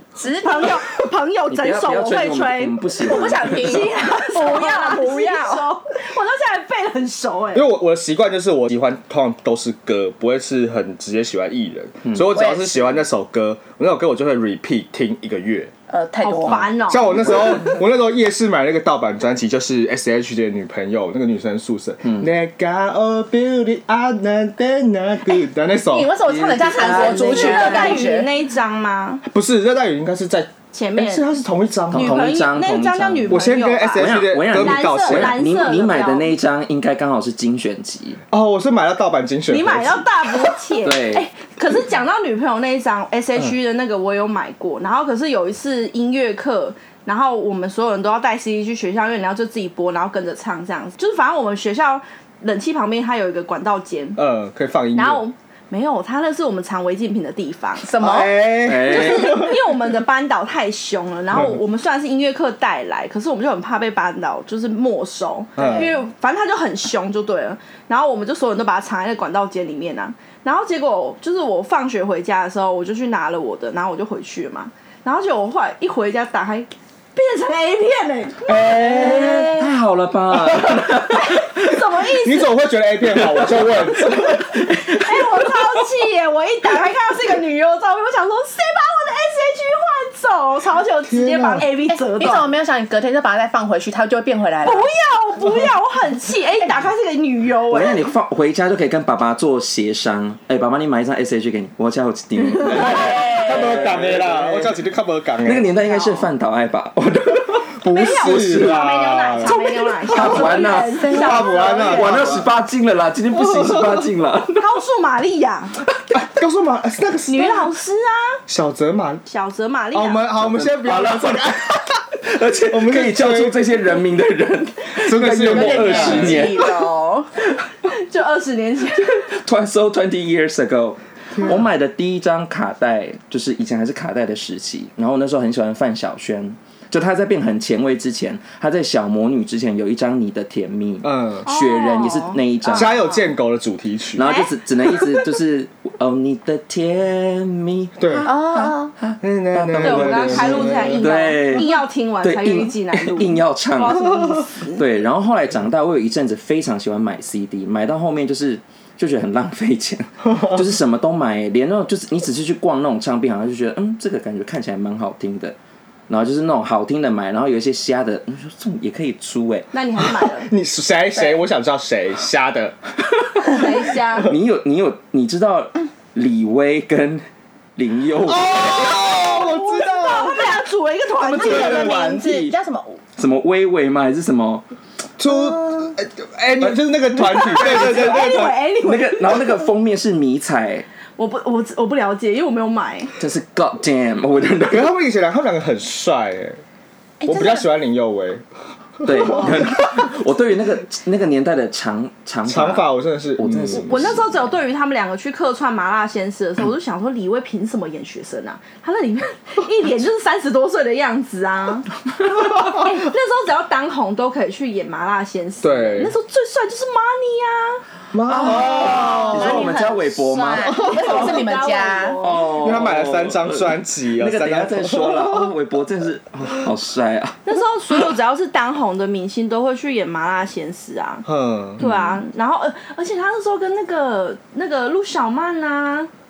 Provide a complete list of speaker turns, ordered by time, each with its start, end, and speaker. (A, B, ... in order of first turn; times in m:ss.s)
0:00.2-0:00.8 A
0:00.4-0:07.7 B
0:01.5-0:03.9 C
0:03.0-0:05.7 A
0:07.5-0:15.7 D
0:12.3-0:13.0 A
0:15.9-0:16.7 A
0:16.2-0:17.6 B
0:16.9-0:26.1 D
0:25.9-0:28.3 A
0:26.2-0:28.0 C
0:26.6-0:29.2 B
0:29.2-0:32.2 D
0:30.7-0:31.3 B
0:31.9-0:33.4 C
0:31.9-0:36.3 B
0:33.3-0:35.4 D
0:33.9-0:38.2 C
0:38.3-0:40.1 D
0:39.5-0:54.2 B
0:40.8-0:41.2 C
0:54.2-0:55.2 D
0:54.9-0:57.9 B
0:57.8-0:58.4 A
0:58.0-0:59.6 D
0:58.6-0:59.4 C
0:58.8-1:19.6 B
1:01.3-1:01.6 D
1:05.6-1:05.9 D
1:05.6-1:05.9 A
1:18.4-1:19.6 D
1:18.9-1:21.5 C
1:20.5-1:20.8 D
1:21.1-1:22.5 B
1:22.2-1:24.5 D
1:23.1-1:25.2 C
1:24.6-1:32.5 B
1:31.1-1:31.7 D
1:31.9-1:34.9 A
1:34.6-1:38.0 B
1:37.7-1:44.8 C
1:42.7-1:45.7 D
1:42.8-1:43.9 A
1:45.4-1:54.7 C
1:45.8-1:46.2 B
1:47.8-1:49.6 D
1:47.8-1:52.4 B
1:50.1-1:50.5 D
1:50.4-1:51.8 A
1:51.0-1:52.5 D
1:53.3-1:54.1 D
1:54.6-1:55.8 B
1:56.1-1:57.7 D
1:57.3-1:58.4 B
1:58.5-1:59.2 D
1:59.2-2:00.2 B
1:59.9-2:02.0 D
2:00.4-2:01.6 C
2:02.2-2:06.7 C
2:02.7-2:03.6 D
2:05.0-2:06.6 D
2:05.2-2:07.3 A
2:06.1-2:06.4 B
2:07.8-2:09.2 B
2:09.0-2:23.0 C
2:11.4-2:11.6 D
2:21.0-2:21.5 D
2:21.4-2:23.2 B
2:22.7-2:24.3 D
2:24.2-2:45.6 C
2:24.2-2:25.2 B
2:28.0-2:28.3 D
2:28.2-2:28.9 A
2:29.2-2:31.1 D
2:29.8-2:34.8 B
2:46.1-2:49.7 C
2:49.7-2:50.5 B
2:50.2-2:52.8 D
2:53.5-2:54.3 B
2:54.2-2:57.2 C
2:57.8-2:59.2 C
2:58.2-3:00.5 D
2:59.2-3:02.0 B
3:01.2-3:02.6 C
3:01.2-3:03.0 A
3:03.2-3:04.6 C
3:05.2-3:08.6 D
3:05.3-3:05.7 A
3:06.6-3:10.8 C
3:07.2-3:09.6 B
3:11.2-3:13.1 B
3:13.2-3:14.9 C
3:14.7-3:16.6 D
3:17.2-3:17.7 A
3:17.2-3:18.4 D
3:19.0-3:19.8 D
3:19.0-3:24.4 C
3:22.5-3:24.1 D
3:23.7-3:37.8 B
3:35.6-3:36.1 D
3:38.1-3:39.7 D
3:38.3-3:41.2 C
3:38.3-3:42.2 A
3:40.8-3:42.8 B
3:42.2-3:47.4 C
3:42.6-3:45.5 D
3:47.4-3:51.2 B
3:51.2-3:51.8 D
3:51.8-3:56.1 B
3:51.8-3:52.2 C